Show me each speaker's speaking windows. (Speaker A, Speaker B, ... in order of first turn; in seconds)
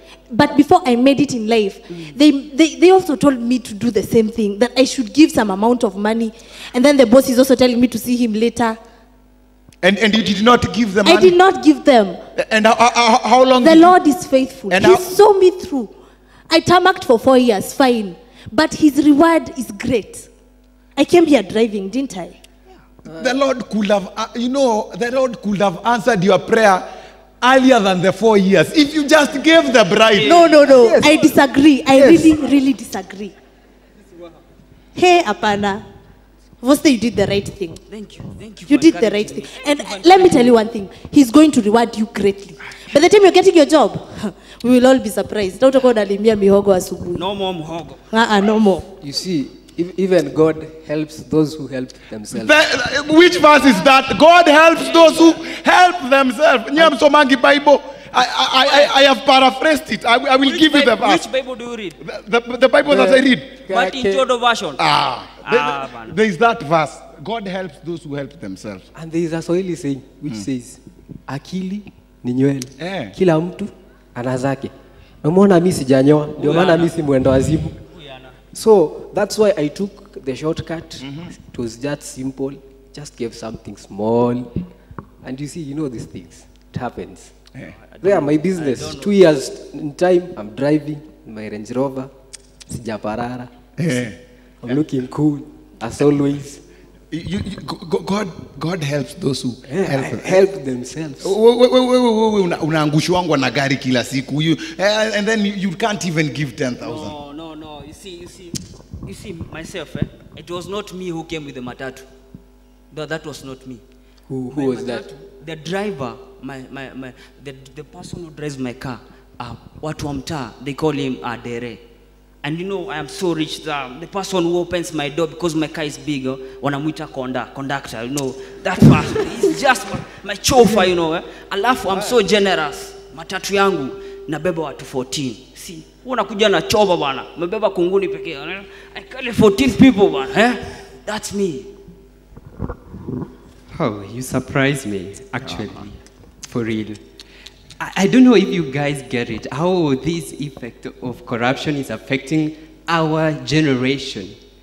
Speaker A: 0.3-8.8, 11.0-12.2, 13.6-15.9, 16.5-20.3, 20.9-22.4, 30.2-33.3, 34.9-35.8, 36.6-37.8, 38.6-47.2, 48.1-48.9
Speaker B: 9.8-11.4, 12.3-13.9, 14.7-15.1, 23.2-26.9, 27.4-30.6, 52.3-61.2, 62.0-63.6, 64.8-68.8, 72.8-73.1, 81.0-81.3, 93.8-94.8, 97.1-100.4, 101.2-107.1
Speaker C: 23.1-23.4, 30.7-31.3, 31.9-32.3, 49.0-52.5, 62.9-64.2, 68.9-77.8, 78.5-84.6, 85.2-87.3, 88.0-92.1, 92.7-94.1, 94.6-96.6, 99.6-101.4, 114.3-115.0
Speaker D: 30.1-30.9, 37.9-40.6, 47.1-48.1, 54.8-55.5, 58.6-58.9, 60.4-62.0, 63.7-64.8, 65.4-66.2, 76.4-77.0, 77.8-78.3, 87.7-89.3, 106.8-112.1, 112.9-113.8, 114.5-121.8, 122.4-141.7
Speaker E: 143.7-145.9, 146.4-147.0, 147.8-154.3